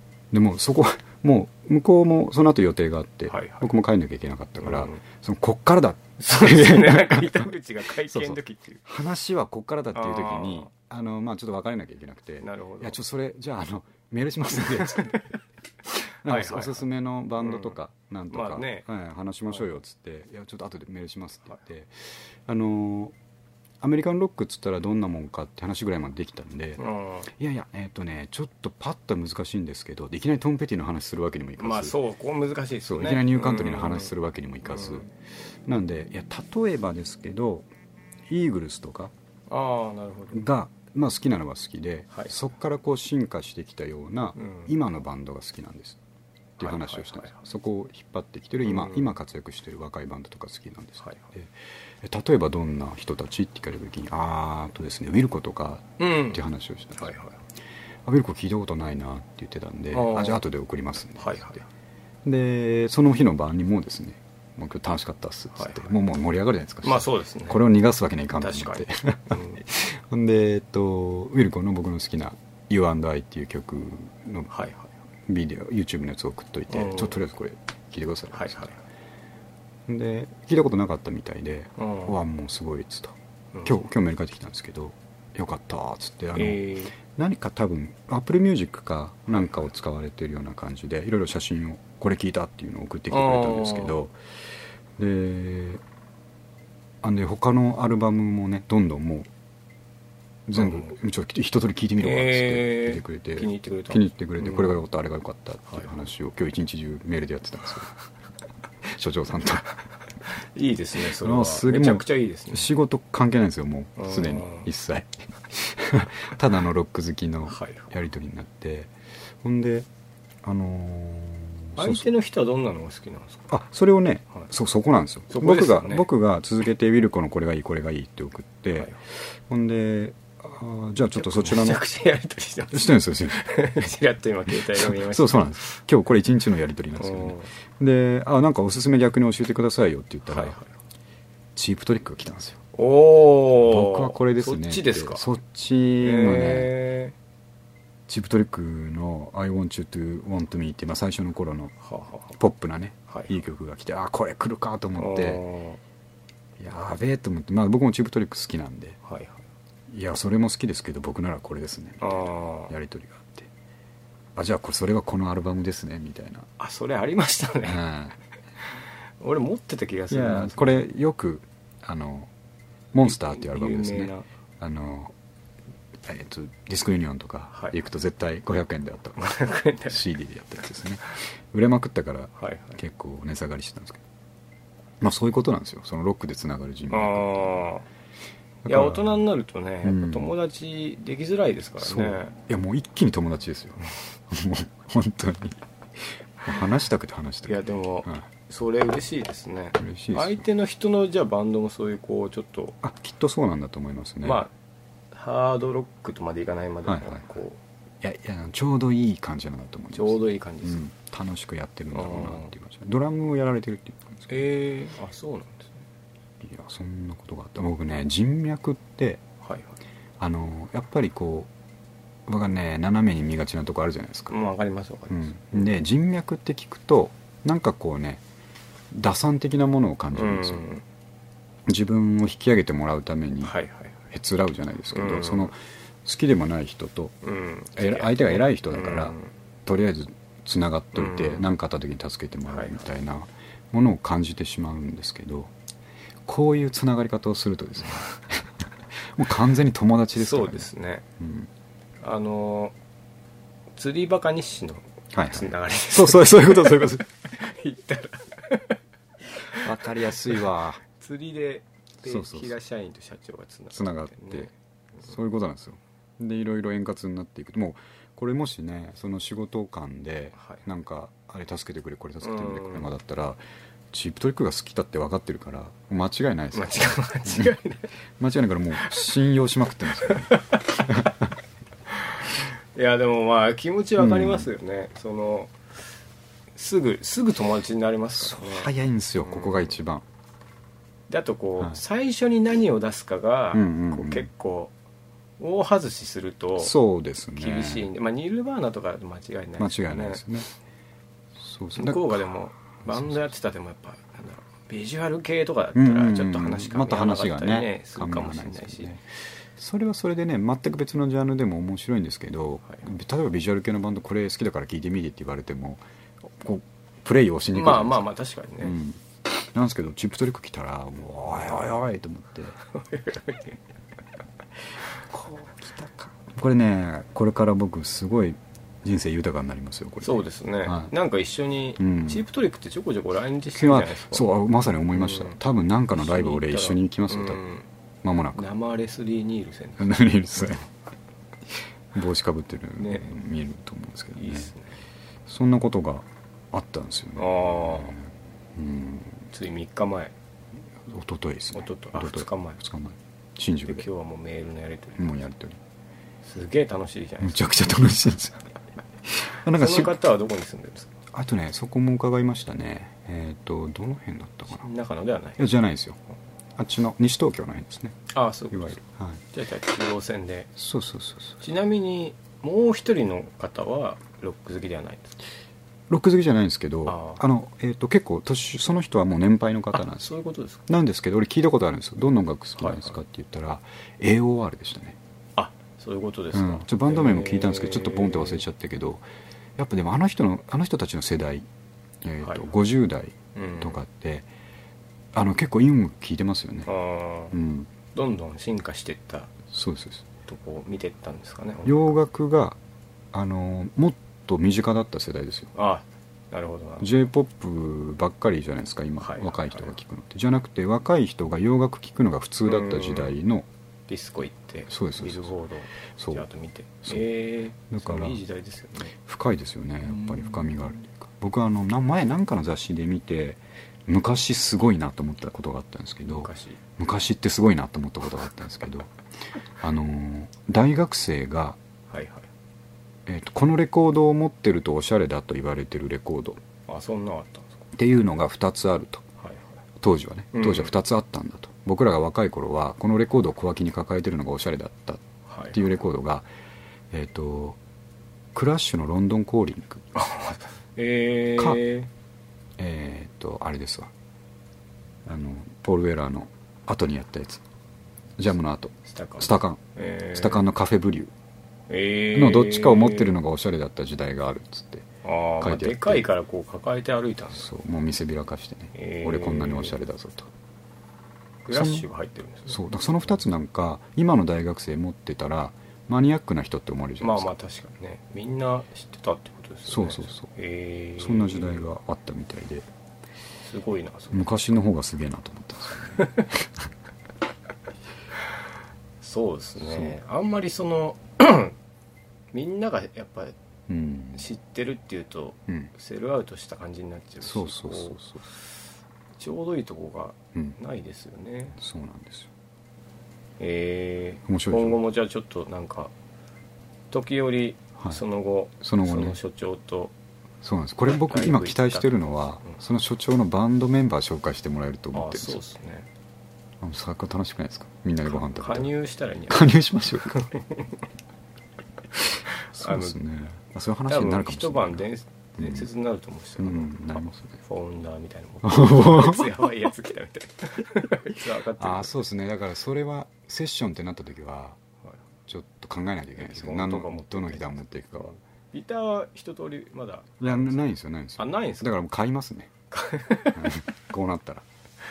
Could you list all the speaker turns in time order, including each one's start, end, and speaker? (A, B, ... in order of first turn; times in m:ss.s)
0:00.3-0:07.5 A
0:03.3-0:03.7 B
0:04.6-0:05.0 B
0:06.2-0:08.8 B
0:08.0-0:15.2 A
0:10.0-0:10.7 B
0:12.4-0:13.0 B
0:14.6-0:15.3 B
0:15.9-0:23.2 A
0:16.2-0:16.8 B
0:17.4-0:17.7 B
0:18.3-0:18.8 B
0:23.8-0:32.0 A
0:26.8-0:27.3 B
0:31.6-0:34.1 B
0:32.8-0:35.1 A
0:34.7-0:35.0 B
0:35.6-0:37.7 A
0:38.3-0:39.1 A
0:39.5-0:40.5 B
0:40.3-0:46.0 A
0:44.4-0:44.7 B
0:46.6-0:57.2 A
0:46.6-0:47.4 B
0:48.6-0:49.2 B
0:51.0-0:51.3 B
0:56.0-0:56.4 B
0:57.0-0:57.4 B
0:58.1-1:01.6 A
0:59.9-1:00.4 B
1:01.2-1:01.7 B
1:02.2-1:14.5 A
1:05.6-1:05.9 B
1:06.8-1:07.6 B
1:08.4-1:09.6 B
1:14.5-1:14.9 B
1:15.3-1:18.7 A
1:16.7-1:17.2 B
1:18.3-1:18.8 B
1:19.9-1:34.2 A
1:21.8-1:22.2 B
1:26.4-1:27.0 B
1:33.1-1:34.0 B
1:35.0-1:35.8 A
1:37.0-1:39.3 A
1:40.5-1:47.9 A
1:40.6-1:41.0 B
1:42.0-1:44.8 B
1:45.7-1:46.0 B
1:48.8-1:49.7 A
1:50.6-1:52.7 B
1:51.2-1:58.9 A
1:54.0-1:54.7 B
1:57.5-1:57.9 B
1:59.4-1:59.9 A
2:00.4-2:02.0 A
2:01.8-2:03.5 B
2:03.5-2:08.9 A
2:05.3-2:06.1 B
2:09.5-2:11.8 A
2:11.2-2:15.8 B
2:12.7-2:13.5 A
2:14.5-2:20.6 A
2:17.0-2:17.5 B
2:20.3-2:20.7 B
2:21.6-2:22.6 A
2:22.7-2:25.3 B
2:23.6-2:26.7 A
2:26.0-2:27.2 B
2:28.1-2:31.7 A
2:31.8-2:32.4 B
2:32.4-2:35.4 A
2:33.1-2:33.4 B
2:35.0-2:35.8 B
2:36.6-2:39.0 A
2:39.1-2:39.4 B
2:39.9-2:43.5 A
2:42.0-2:42.7 B
2:44.4-2:46.5 A
2:46.6-2:47.9 B
2:47.7-2:48.2 A
2:48.6-2:50.8 B
2:50.1-2:52.3 A
2:52.9-2:55.1 A
2:53.0-2:54.3 B
2:56.0-2:59.2 A
2:59.2-3:00.0 B
2:59.9-3:04.0 A
3:02.4-3:02.8 B
3:05.0-3:07.7 A
3:06.9-3:07.8 B
3:08.6-3:09.2 A
3:08.7-3:12.3 B
3:09.8-3:10.3 A
3:11.8-3:18.2 A
3:17.5-3:22.8 B
3:19.8-3:20.4 A
3:22.8-3:24.5 A
3:24.2-3:24.5 B
3:25.1-3:27.6 B
3:26.9-3:27.2 A
3:28.0-3:34.4 A
3:29.9-3:30.8 B
3:31.9-3:32.5 B
3:34.3-3:35.8 B
3:36.4-3:39.2 A
3:39.4-3:39.8 B
3:40.2-3:41.5 A
3:42.3-3:44.3 A
3:44.3-3:45.8 B
3:45.1-3:48.2 A
3:48.9-3:50.6 A
3:50.2-3:50.8 B
3:51.7-3:53.5 A
3:53.4-3:54.0 B
3:54.1-3:57.2 A
3:54.9-3:55.5 B
3:57.2-3:59.3 B
3:57.8-4:05.5 A
4:01.0-4:01.5 B
4:02.5-4:02.8 B
4:06.3-4:08.5 A
4:09.0-4:10.7 A
4:10.2-4:11.0 B
4:11.2-4:11.5 A
4:12.0-4:12.8 B
4:13.8-4:18.8 B
4:15.1-4:17.0 A
4:19.3-4:25.1 B
4:19.6-4:20.8 A
4:22.0-4:22.5 A
4:23.7-4:24.5 A
4:25.0-4:33.4 A
4:30.4-4:30.6 B
4:32.2-4:32.9 B
4:33.9-4:37.6 A
4:36.5-4:37.9 B
4:38.2-4:41.3 A
4:40.0-4:41.0 B
4:42.0-4:45.6 B
4:44.0-4:44.5 A
4:46.6-4:48.7 B
4:48.1-4:50.0 A
4:49.2-4:49.8 B
4:51.1-4:54.7 B
4:53.5-4:54.3 A
4:55.4-4:56.8 B
4:56.6-4:57.9 A
4:57.4-5:00.3 B
4:59.6-5:00.5 A
5:01.4-5:02.2 A
5:01.8-5:09.0 B
5:02.8-5:03.2 A
5:05.8-5:09.0 A
5:09.6-5:15.8 A
5:16.4-5:18.1 A
5:17.5-5:18.8 B
5:18.6-5:22.6 A
5:22.7-5:23.6 B
5:25.1-5:30.9 A
5:30.0-5:34.2 B
5:31.8-5:32.2 A
5:33.5-5:37.4 A
5:34.9-5:35.4 B
5:36.0-5:37.7 B
5:38.0-5:38.5 A
5:38.4-5:40.0 B
5:39.8-5:40.7 A
5:41.9-5:44.5 A
5:42.8-5:43.2 B
5:44.2-5:44.7 B
5:45.3-5:49.2 A
5:47.2-5:48.0 B
5:49.3-5:50.1 B
5:50.8-5:53.9 A
5:51.6-5:52.6 B
5:53.7-5:55.1 B
5:55.0-5:55.6 A
5:56.2-5:57.5 B
5:57.2-5:58.5 A
5:59.0-6:00.0 A
5:59.4-6:01.0 B
6:01.1-6:04.7 A
6:04.5-6:05.5 B
6:05.4-6:06.0 A
6:06.6-6:08.0 A
6:08.1-6:10.5 B
6:08.5-6:09.2 A
6:10.6-6:11.4 A
6:11.4-6:15.2 B
6:15.9-6:20.1 A
6:16.9-6:17.2 B
6:19.7-6:20.6 B
6:20.7-6:25.0 A
6:22.6-6:23.0 B
6:25.4-6:28.4 B
6:26.3-6:29.0 A
6:29.6-6:31.5 A
6:32.0-6:34.3 A
6:33.4-6:33.8 B
6:35.1-6:36.7 A
6:36.7-6:37.4 B
6:37.3-6:37.7 A
6:37.9-6:39.3 B
6:39.5-6:40.0 A
6:40.3-6:41.8 B
6:41.6-6:42.6 A
6:43.1-6:45.5 A
6:45.6-6:46.9 B
6:46.8-6:53.5 A
6:49.0-6:49.8 B
6:52.5-6:53.2 B
6:53.9-6:58.9 B
6:54.7-6:55.3 A
6:56.0-6:56.3 A
6:57.7-6:58.2 A
6:59.0-7:08.9 A
6:59.9-7:00.5 B
7:06.2-7:06.6 B
7:09.6-7:11.6 A
7:11.9-7:12.3 B
7:13.1-7:16.4 A
7:16.7-7:17.6 B
7:17.7-7:19.0 A
7:19.2-7:19.6 B
7:19.8-7:26.3 A
7:20.3-7:20.7 B
7:25.3-7:25.6 B
7:26.9-7:27.6 A
7:28.3-7:29.8 A
7:30.0-7:31.9 B
7:32.6-7:33.9 A
7:35.1-7:37.4 A
7:38.2-7:39.6 A
7:38.8-7:40.5 B
7:40.1-7:41.1 A
7:41.7-7:43.2 B
7:42.2-7:44.9 A
7:45.0-7:47.5 B
7:45.4-7:46.0 A
7:47.4-7:50.3 A
7:48.7-7:49.8 B
7:51.4-7:52.6 B
7:51.5-7:51.9 A
7:52.5-7:57.3 A
7:57.0-8:01.7 B
7:59.7-8:00.3 A
8:01.0-8:02.7 A
8:03.4-8:04.4 B
8:04.1-8:06.1 A
8:05.9-8:06.3 B
8:09.0-8:11.6 B
8:09.6-8:09.9 A
8:12.3-8:13.4 B
8:13.7-8:14.3 A
8:14.1-8:18.5 B
8:17.2-8:18.2 A
8:19.2-8:21.6 B
8:21.6-8:22.3 A
8:23.4-8:25.9 B
8:24.3-8:24.8 A
8:26.9-8:29.9 B
8:28.6-8:29.2 A
8:30.4-8:35.4 A
8:31.0-8:32.6 B
8:34.9-8:35.9 B
8:36.6-8:38.7 A
8:38.1-8:39.5 B
8:39.3-8:40.3 A
8:40.1-8:40.8 B
8:42.3-8:43.0 B
8:42.5-8:44.9 A
8:43.9-8:52.0 B
8:45.4-8:45.7 A
8:46.4-8:47.3 A
8:48.4-8:49.4 A
8:51.6-8:54.6 A
8:55.3-8:58.1 A
8:56.2-9:00.6 B
9:00.2-9:02.5 A
9:01.2-9:01.7 B
9:02.7-9:03.6 B
9:03.3-9:04.4 A